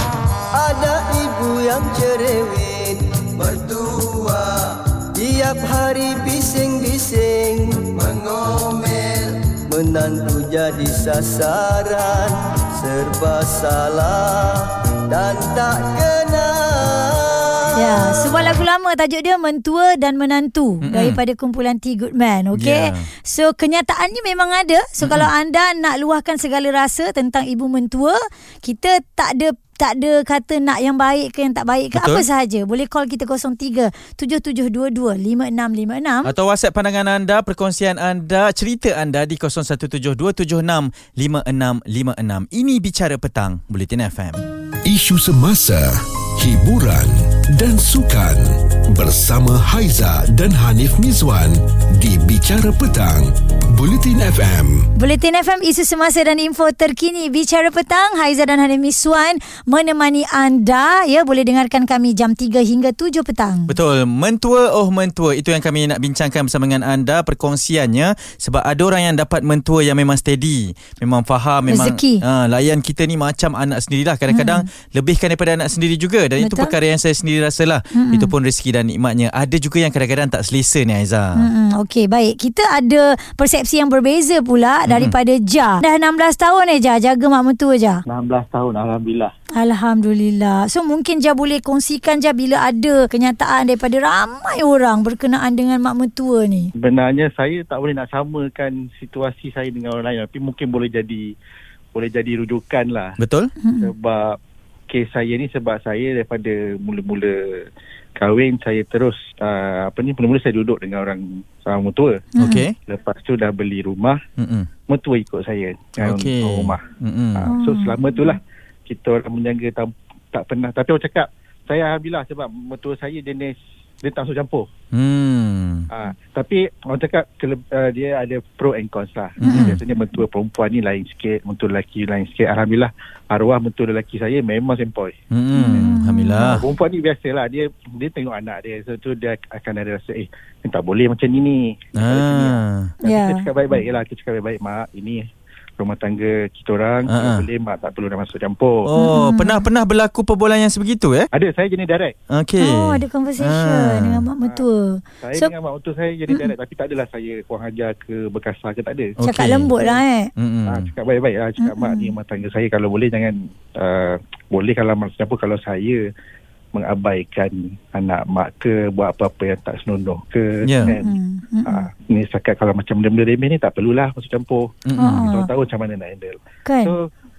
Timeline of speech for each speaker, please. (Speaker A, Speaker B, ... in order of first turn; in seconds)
Speaker A: 0.5-18.4
Speaker B: 17.7-36.3, 55.0-63.7, 71.7-72.2, 74.3-74.7, 76.4-76.7, 77.9-78.3, 81.4-88.0, 89.5-96.7, 103.6-103.9, 112.4-112.7, 117.5-118.3, 129.4-129.8, 135.5-136.6, 143.1-143.4, 148.9-149.6, 152.6-155.5, 159.2-160.3, 161.6-162.1, 171.0-171.9, 175.0-175.5, 176.7-176.9
Speaker C: 20.8-21.2, 22.5-23.1, 25.0-25.3, 31.9-32.2, 36.2-44.4, 63.7-81.5, 84.9-85.1, 103.2-103.5, 112.4-112.7, 114.4-114.7, 116.0-117.5, 124.9-125.9, 129.4-129.8, 135.3-136.6, 141.9-142.9, 147.1-147.4, 148.8-151.3, 152.3-154.3, 159.2-159.7, 160.4-160.9, 170.6-170.9, 174.8-175.3
Speaker D: 44.8-54.9
Speaker E: 88.1-89.3, 96.8-101.3, 101.9-103.2, 103.8-104.4, 104.9-107.6, 108.2-112.2, 112.8-114.2, 114.9-116.7, 117.3-124.7, 125.9-135.1, 136.6-142.5, 143.0-145.2, 145.8-148.8, 151.3-152.1, 155.2-159.1, 160.7-166.0, 166.7-171.1, 171.7-177.0